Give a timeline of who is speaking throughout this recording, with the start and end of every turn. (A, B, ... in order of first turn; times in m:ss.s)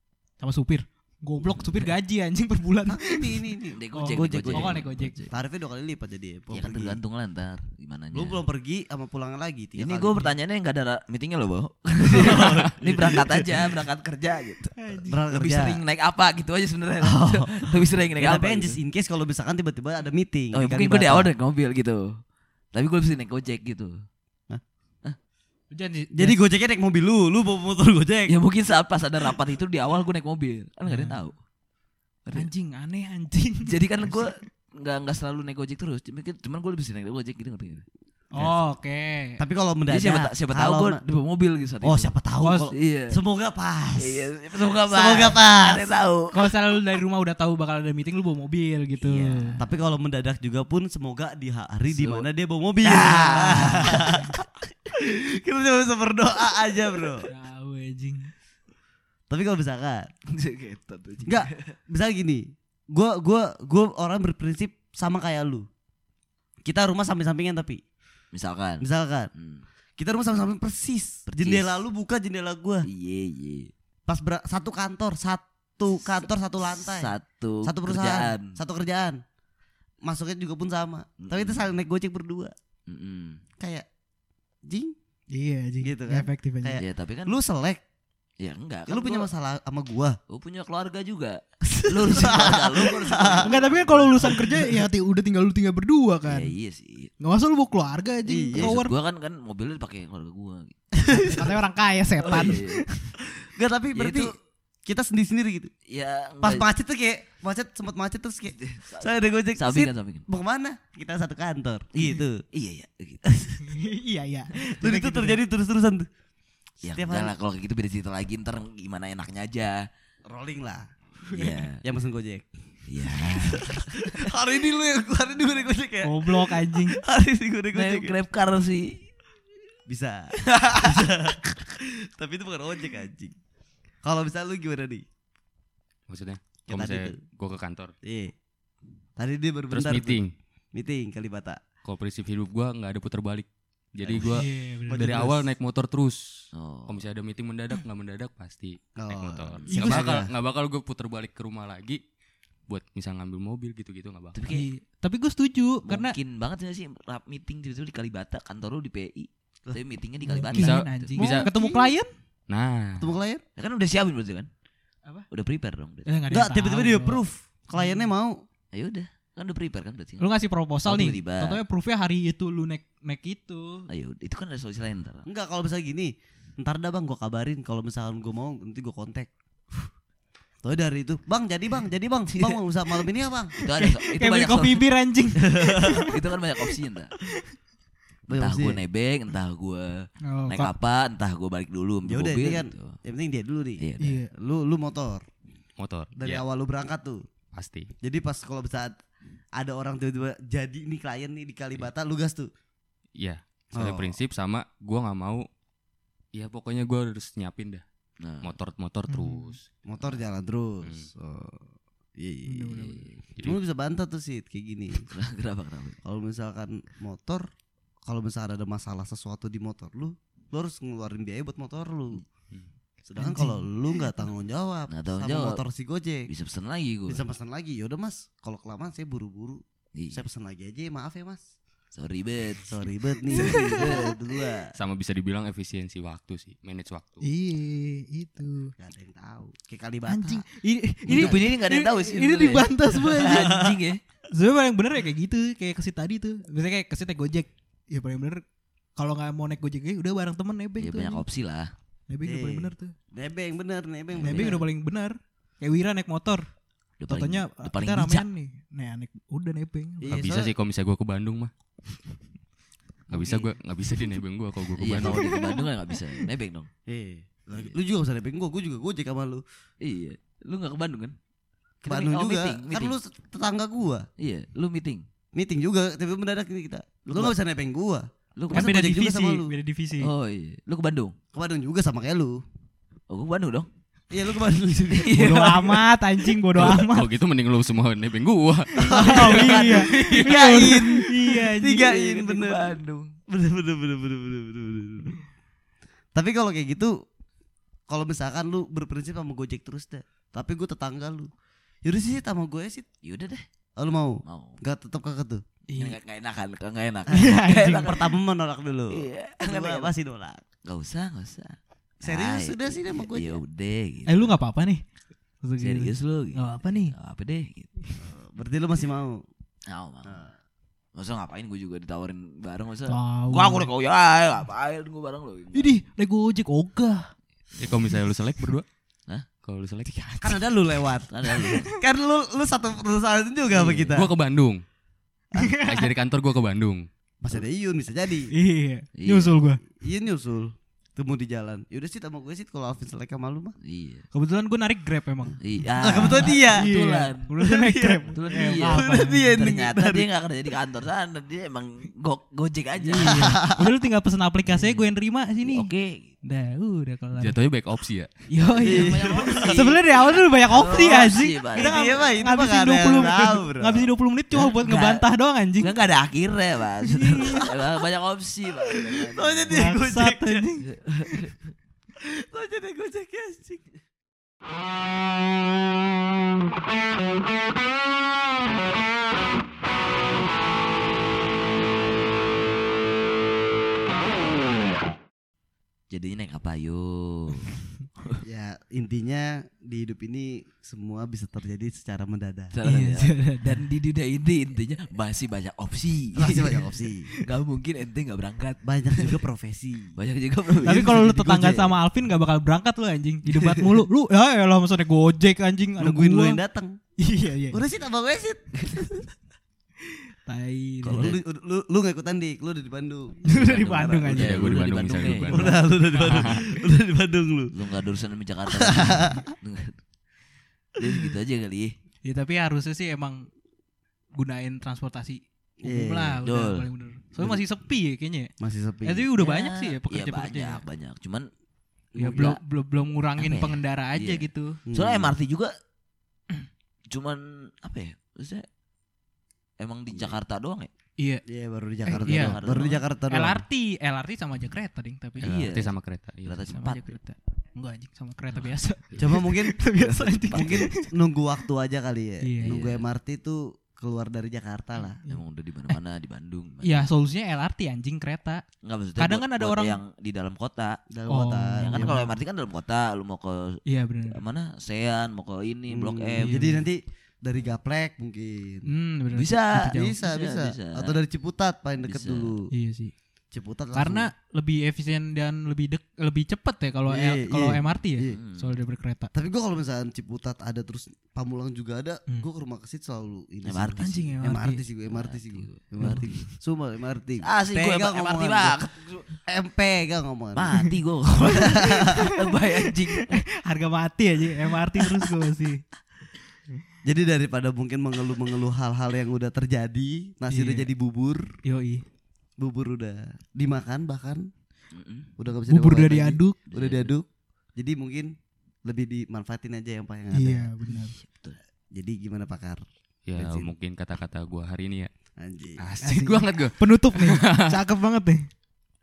0:00.4-0:05.2 A
0:02.9-0:07.0 B
0:03.7-0:05.3 C
0:06.5-0:08.4 C
0:08.1-0:10.3 B
0:09.8-0:14.8 C
0:12.0-0:13.8 B
0:14.8-0:15.2 A
0:15.0-0:15.8 B
0:15.3-0:18.8 C
0:17.0-0:21.3 B
0:20.5-0:22.2 C
0:22.7-0:24.0 C
0:25.7-0:26.4 A
0:26.1-0:28.4 B
0:28.3-0:31.4 C
0:30.8-0:31.2 A
0:32.3-0:34.4 A
0:33.6-0:37.8 C
0:38.3-0:39.4 A
0:39.4-0:41.0 B
0:39.9-0:42.1 C
0:41.8-0:45.9 B
0:42.4-0:42.7 A
0:42.7-0:43.2 C
0:44.0-0:46.4 C
0:46.3-0:49.6 A
0:49.0-0:49.6 C
0:49.6-0:57.3 B
0:51.9-0:52.2 C
0:52.8-0:54.2 C
0:57.3-0:58.3 A
0:59.3-1:00.1 B
1:00.3-1:01.8 C
1:01.2-1:05.7 B
1:06.6-1:07.8 B
1:08.3-1:09.6 C
1:08.8-1:09.3 B
1:10.0-1:12.9 B
1:11.3-1:11.8 C
1:12.8-1:13.7 C
1:14.1-1:19.2 B
1:16.8-1:18.6 C
1:20.0-1:22.5 B
1:21.2-1:21.6 C
1:22.9-1:23.4 C
1:23.6-1:23.8 B
1:24.7-1:24.9 B
1:25.3-1:26.8 A
1:25.8-1:27.8 B
1:26.8-1:27.3 C
1:28.4-1:29.3 C
1:28.9-1:30.2 B
1:30.3-1:34.6 C
1:31.9-1:33.6 B
1:33.4-1:36.5 A
1:36.2-1:37.1 C
1:37.2-1:38.9 A
1:38.2-1:38.8 B
1:38.5-1:41.5 C
1:41.0-1:41.5 B
1:41.2-1:43.1 A
1:42.2-1:42.8 C
1:43.4-1:44.3 B
1:43.9-1:44.3 C
1:44.8-1:45.7 B
1:45.9-1:46.7 C
1:46.4-1:52.4 B
1:48.5-1:50.2 C
1:52.0-1:53.3 C
1:53.2-1:53.6 B
1:53.6-1:55.4 A
1:54.8-1:56.1 B
1:56.8-1:59.9 C
1:56.9-1:57.3 B
2:00.3-2:00.9 B
2:01.3-2:01.6 A
2:01.3-2:01.8 C
2:01.8-2:02.5 B
2:02.9-2:04.1 C
2:03.4-2:08.2 B
2:06.0-2:07.0 A
2:07.7-2:09.1 C
2:09.9-2:13.3 B
2:14.0-2:15.0 B
2:16.1-2:17.9 D
2:16.7-2:17.2 B
2:18.0-2:18.3 B
2:19.2-2:20.2 B
2:19.7-2:20.3 D
2:20.7-2:21.6 B
2:21.8-2:32.0 D
2:24.0-2:24.3 B
2:24.2-2:25.3 A
2:24.9-2:25.4 B
2:26.5-2:27.0 C
2:29.0-2:30.3 B
2:29.6-2:29.9 C
2:29.7-2:30.1 A
2:32.7-2:34.4 D
2:34.3-2:34.7 C
2:34.5-2:36.2 A
2:35.9-2:41.0 C
2:40.3-2:42.1 A
2:40.5-2:41.5 D
2:41.2-2:41.9 B
2:42.5-2:43.1 D
2:43.0-2:43.4 B
2:43.6-2:44.5 C
2:45.3-2:46.1 C
2:46.0-2:47.2 A
2:46.3-2:48.4 B
2:47.8-2:48.1 A
2:48.7-2:50.3 C
2:50.2-2:53.9 A
2:50.8-2:51.6 C
2:53.9-2:55.3 C
2:55.2-2:59.3 B
3:00.6-3:03.5 B
3:03.6-3:06.8 A
3:03.6-3:04.9 C
3:05.4-3:06.1 B
3:06.0-3:07.1 C
3:08.3-3:08.8 B
3:08.3-3:13.0 C
3:10.2-3:10.7 A
3:12.0-3:15.2 B
3:13.8-3:14.2 C
3:14.0-3:14.3 A
3:15.8-3:16.4 D
3:16.2-3:17.2 B
3:17.5-3:17.9 D
3:18.0-3:19.0 B
3:19.6-3:22.5 B
3:23.2-3:25.4 D
3:23.7-3:24.2 B
3:26.3-3:27.8 D
3:28.2-3:28.5 C
3:28.4-3:29.6 D
3:29.1-3:29.5 A
3:29.8-3:31.6 B
3:30.8-3:31.1 D
3:32.2-3:32.9 B
3:32.4-3:33.1 A
3:33.4-3:35.1 B
3:35.1-3:36.0 C
3:36.0-3:37.4 B
3:38.0-3:42.2 B
3:43.0-3:46.3 B
3:43.2-3:43.7 A
3:44.9-3:45.6 C
3:46.3-3:47.2 C
3:47.1-3:51.4 B
3:49.9-3:50.2 C
3:51.9-3:52.7 C
3:52.6-3:54.7 B
3:53.3-3:54.2 C
3:53.3-3:54.1 A
3:54.8-3:57.2 D
3:57.2-3:58.7 A
3:58.8-4:00.4 B
4:00.1-4:03.7 A
4:01.1-4:01.5 B
4:01.1-4:04.0 C
4:03.2-4:03.8 B
4:04.3-4:08.4 A
4:09.0-4:11.2 A
4:10.8-4:11.7 C
4:12.1-4:12.9 A
4:12.2-4:14.6 B
4:14.2-4:14.6 C
4:14.2-4:16.5 A
4:17.0-4:18.2 C
4:17.1-4:20.2 A
4:20.0-4:20.5 B
4:20.1-4:21.5 D
4:23.1-4:23.5 C
4:23.1-4:25.3 D
4:24.8-4:26.7 C
4:25.0-4:25.7 A
4:26.9-4:29.4 B
4:29.8-4:31.2 C
4:31.8-4:34.1 B
4:31.8-4:32.9 C
4:34.2-4:35.0 C
4:35.3-4:39.5 B
4:37.1-4:37.3 C
4:38.3-4:38.7 C
4:38.5-4:40.1 A
4:40.0-4:41.2 C
4:41.3-4:42.4 B
4:43.1-4:43.7 C
4:44.1-4:45.6 B
4:44.9-4:46.8 C
4:45.1-4:47.1 A
4:46.6-4:50.1 D
4:48.7-4:52.8 B
4:48.8-4:51.8 A
4:49.4-4:53.1 C
4:53.3-4:55.2 B
4:56.1-4:56.9 B
4:57.9-5:01.3 B
5:01.8-5:02.8 B
5:03.0-5:03.4 C
5:03.8-5:05.4 B
5:04.2-5:04.6 C
5:05.7-5:06.0 A
5:05.8-5:08.1 C
5:07.1-5:07.9 A
5:07.2-5:10.4 B
5:08.9-5:09.9 C
5:10.6-5:14.4 C
5:12.0-5:13.4 B
5:14.0-5:14.8 A
5:15.4-5:16.9 A
5:15.6-5:17.7 C
5:18.0-5:19.2 B
5:19.7-5:20.3 C
5:20.1-5:20.3 B
5:20.9-5:25.8 C
5:22.9-5:23.7 A
5:25.5-5:27.1 A
5:27.6-5:28.6 D
5:29.4-5:29.9 D
5:29.9-5:30.5 A
5:30.2-5:34.1 B
5:31.1-5:31.7 C
5:31.2-5:31.8 A
5:33.5-5:34.0 C
5:33.9-5:34.6 D
5:35.3-5:35.6 B
5:35.4-5:35.8 A
5:35.6-5:36.9 D
5:37.2-5:38.3 B
5:38.3-5:39.6 A
5:39.0-5:39.4 C
5:39.7-5:43.5 B
5:43.6-5:44.0 C
5:44.1-5:49.6 A
5:45.4-5:47.4 C
5:45.8-5:46.7 B
5:47.4-5:50.0 B
5:48.1-5:53.4 C
5:52.8-5:55.7 A
5:53.0-5:53.7 B
5:54.5-5:54.8 C
5:55.4-5:56.1 C
5:56.2-5:57.4 A
5:57.2-5:58.1 D
5:58.3-6:05.7 A
5:58.5-5:59.8 C
5:58.6-5:59.8 B
6:00.4-6:02.2 C
6:01.5-6:03.9 B
6:04.3-6:05.0 C
6:05.6-6:09.5 C
6:06.9-6:07.6 A
6:08.7-6:10.5 B
6:09.5-6:11.1 A
6:10.6-6:11.5 C
6:12.0-6:13.6 B
6:25.9-6:28.2 C
6:28.2-6:32.6 B
6:32.5-6:36.6 C
6:32.6-6:33.7 A
6:36.2-6:37.1 B
6:37.2-6:39.2 C
6:38.6-6:40.0 B
6:39.9-6:41.7 C
6:40.6-6:41.6 B
6:40.6-6:46.4 A
6:43.3-6:43.8 C
6:45.8-6:46.8 B
6:47.0-6:47.6 A
6:47.5-6:49.1 B
6:49.8-6:51.2 A
6:50.8-6:54.0 B
6:50.9-6:51.2 C
6:53.2-6:56.5 A
6:53.4-6:55.6 C
6:54.1-6:56.4 D
6:55.3-6:57.5 B
6:57.5-6:59.8 C
6:58.5-6:59.2 B
7:00.8-7:01.7 C
7:02.0-7:03.3 A
7:04.1-7:08.3 A
7:05.6-7:06.2 B
7:06.2-7:06.7 C
7:08.4-7:09.1 B
7:08.8-7:10.6 A
7:09.2-7:11.3 C
7:12.0-7:12.3 B
7:12.0-7:14.6 A
7:12.0-7:12.4 C
7:13.2-7:15.5 C
7:14.6-7:15.2 B
7:16.9-7:18.5 C
7:19.6-7:20.7 C
7:21.0-7:21.2 A
7:21.2-7:23.4 B
7:21.8-7:25.4 A
7:21.9-7:22.8 C
7:25.2-7:26.9 C
7:25.2-7:26.5 D
7:26.5-7:30.9 A
7:29.0-7:29.6 B
7:29.7-7:30.7 C
7:30.3-7:35.0 B
7:32.2-7:32.6 A
7:32.4-7:32.8 C
7:35.0-7:36.9 C
7:35.0-7:35.8 A
7:36.6-7:38.4 A
7:38.6-7:40.8 C
7:39.0-7:39.8 A
7:40.9-7:42.0 B
7:41.1-7:42.1 A
7:41.6-7:46.6 C
7:43.6-7:44.2 A
7:45.7-7:48.7 B
7:46.2-7:46.6 A
7:48.6-7:50.0 A
7:49.1-7:51.0 C
7:49.5-7:52.5 B
7:51.8-7:52.3 C
7:52.5-7:52.9 A
7:53.3-7:54.1 B
7:53.7-7:59.1 A
7:56.9-7:58.2 B
7:58.0-7:58.5 C
7:59.1-8:08.6 B
8:03.4-8:04.1 C
8:03.8-8:04.6 A
8:04.9-8:06.2 C
8:05.8-8:06.1 A
8:07.2-8:09.1 C
8:09.2-8:10.6 B
8:10.3-8:13.2 C
8:11.3-8:12.0 B
8:11.8-8:15.6 A
8:16.8-8:21.3 B
8:20.3-8:20.7 A
8:21.4-8:21.8 A
8:22.4-8:24.3 B
8:24.7-8:25.1 C
8:25.2-8:27.0 B
8:25.5-8:26.4 A
8:26.5-8:26.9 C
8:27.6-8:28.1 B
8:28.6-8:30.5 B
8:30.1-8:31.0 A
8:30.7-8:31.4 C
8:31.7-8:32.6 B
8:33.1-8:34.9 D
8:33.2-8:33.5 B
8:35.2-8:35.6 B
8:35.6-8:37.6 D
8:35.8-8:38.3 A